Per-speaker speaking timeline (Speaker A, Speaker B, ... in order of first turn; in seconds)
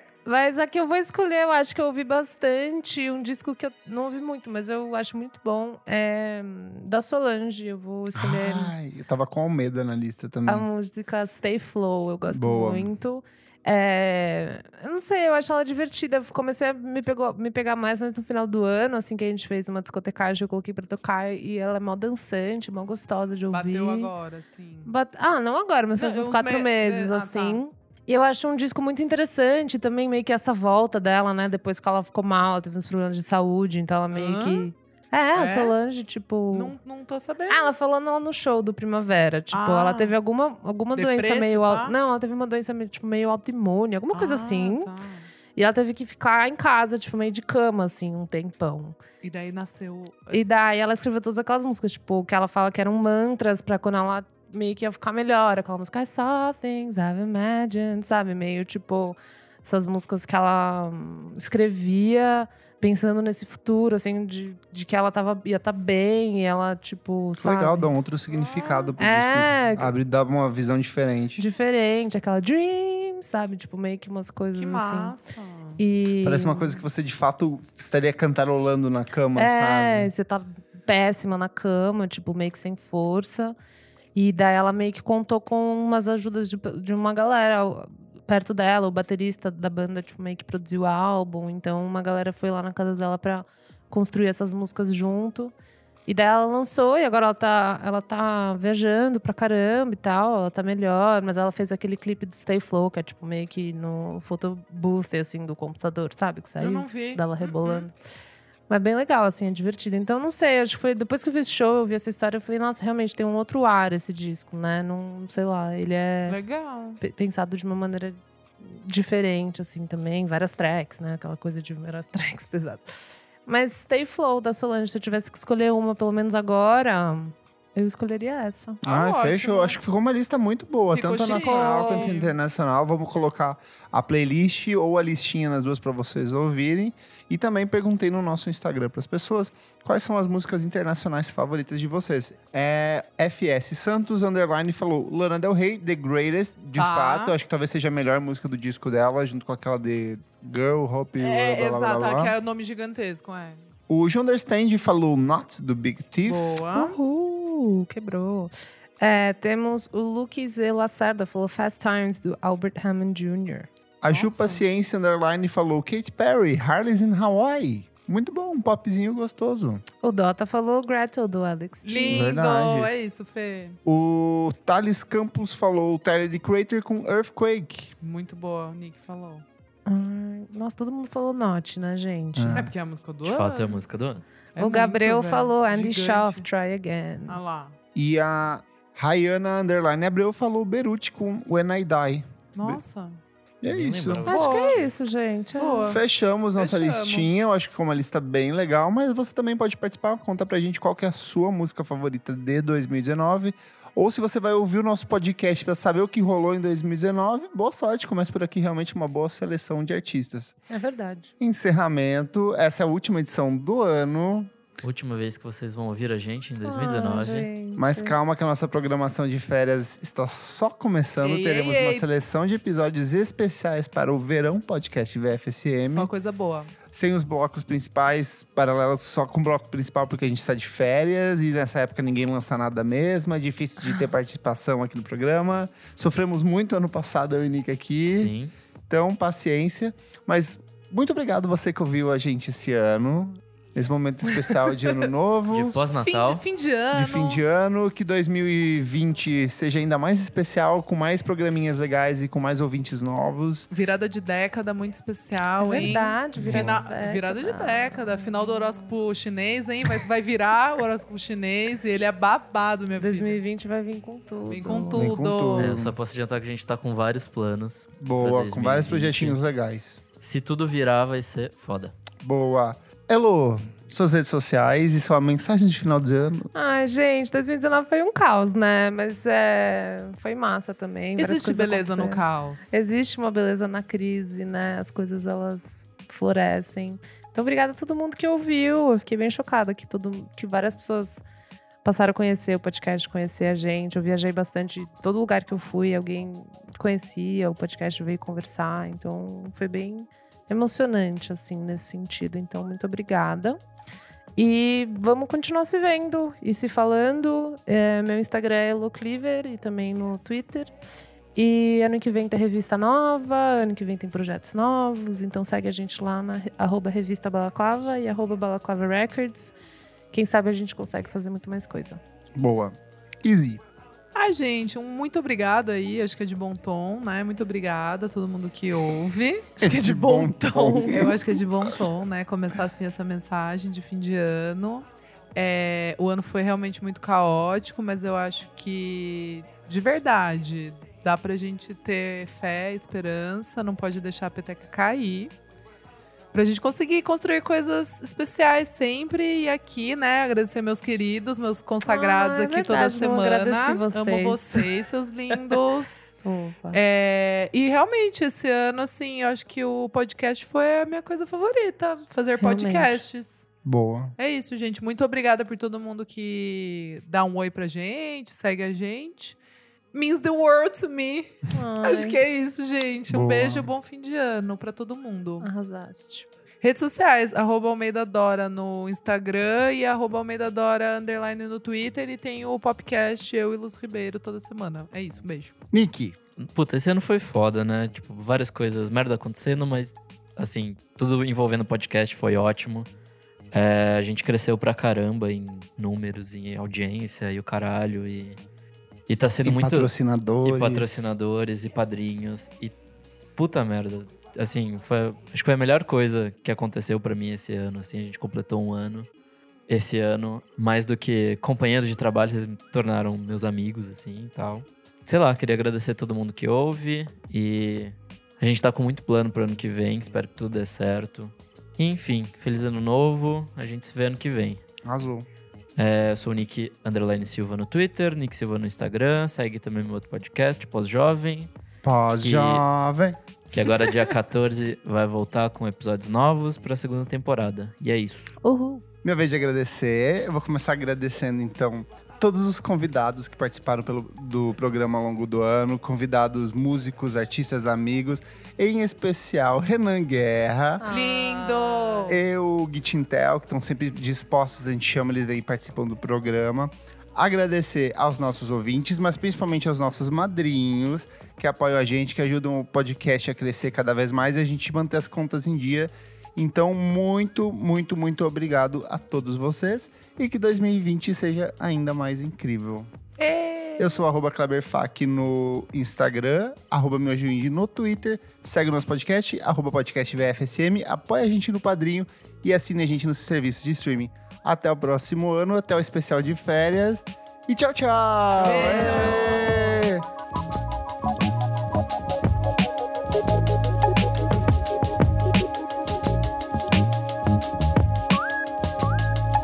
Speaker A: 0.2-8.7, 10.4-24.1, 24.8-36.8, 37.5-44.9, 45.5-49.0, 50.3-67.9, 69.0-70.0, 71.4-75.2, 75.8-76.8, 79.3-83.5, 84.1-95.5, 96.1-107.9, 108.7-116.4, 117.0-128.8, 131.2-132.1, 156.7-163.7, 170.0-172.3, 179.8-182.6, 184.6-187.4, 194.3-196.0, 210.7-211.3, 216.6-218.1, 255.6-258.9, 263.0-265.2, 276.5-291.2, 291.8-303.6, 304.4-310.7, 311.3-319.5, 320.1-322.0, 329.6-331.1, 351.8-354.7, 355.3-355.6, 356.2-356.8, 362.4-363.0, 371.5-372.2, 375.4-376.3, 438.4-438.8, 450.8-452.1, 488.7-489.3
Speaker B: 8.1-10.7, 12.3-12.9, 67.4-71.4, 76.2-80.1, 128.8-152.3, 153.9-156.6, 164.0-169.8, 172.1-172.9, 173.8-177.9, 182.3-182.7, 187.9-192.8, 193.6-194.3, 195.8-210.6, 211.4-214.5, 217.8-226.1, 226.9-238.3, 238.9-245.8, 246.9-253.7, 256.4-256.8, 264.9-265.9, 268.0-270.0, 272.2-276.5, 322.3-323.6, 329.6-331.7, 363.6-364.1, 373.1-373.7, 385.7-386.1, 399.4-401.1, 424.8-425.2, 431.8-433.2, 439.0-450.9, 452.1-472.9, 473.8-490.0
Speaker C: 23.5-24.9, 25.9-27.6, 34.1-34.7, 35.4-35.7, 36.5-37.7, 39.5-40.1, 40.9-42.0, 44.1-45.3, 49.2-50.5, 68.3-68.9, 74.5-75.8, 106.6-107.9, 116.3-117.0, 128.8-129.8, 130.9-132.3, 146.8-147.3, 151.2-153.6, 156.2-157.0, 164.1-164.6, 171.8-173.8, 178.0-179.4, 182.5-183.8, 184.5-186.4, 187.3-187.7, 192.6-193.2, 194.3-194.8, 195.6-196.0, 196.6-197.3, 221.2-222.1, 225.8-226.7, 246.0-247.4, 253.7-263.4, 264.5-265.8, 281.2-282.7, 324.1-329.6, 330.8-345.3, 346.3-356.0, 356.7-363.4, 364.2-369.4, 369.9-375.5, 376.6-385.5, 450.9-452.2, 473.2-474.0, 488.3-489.8
Speaker D: 183.2-184.2, 193.6-194.9, 214.8-217.5, 238.1-238.5, 245.5-246.4, 265.6-269.4, 270.2-271.9, 386.4-392.9, 393.5-398.4, 399.1-399.9, 400.4-402.7, 403.4-409.1, 409.7-424.6, 425.8-431.5, 432.1-432.6, 433.5-438.3